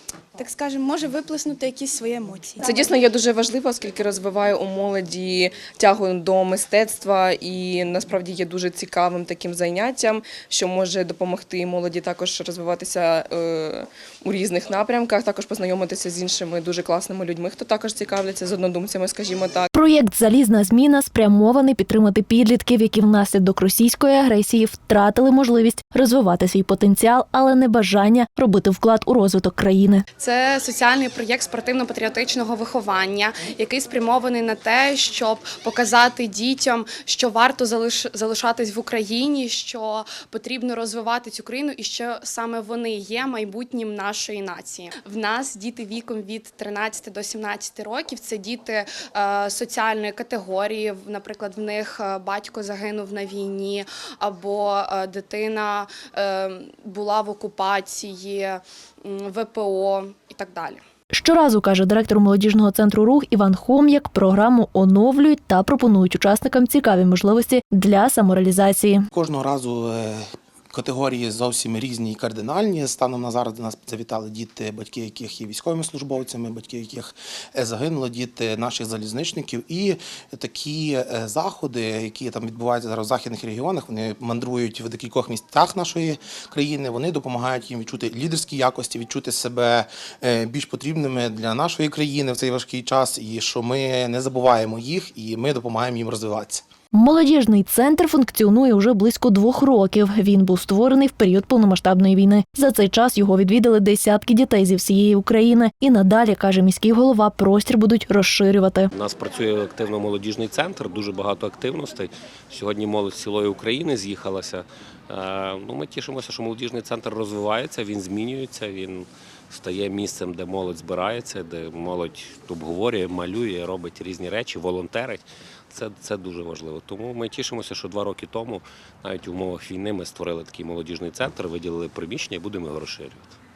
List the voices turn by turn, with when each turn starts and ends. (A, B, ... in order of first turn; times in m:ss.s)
0:00.4-0:02.8 A
0:02.6-0:19.7 B
0:19.7-0:30.0 C
0:30.2-1:00.8 D
1:01.1-1:09.1 C
1:09.1-1:36.6 E
1:36.9-1:48.9 C
1:48.9-2:13.3 F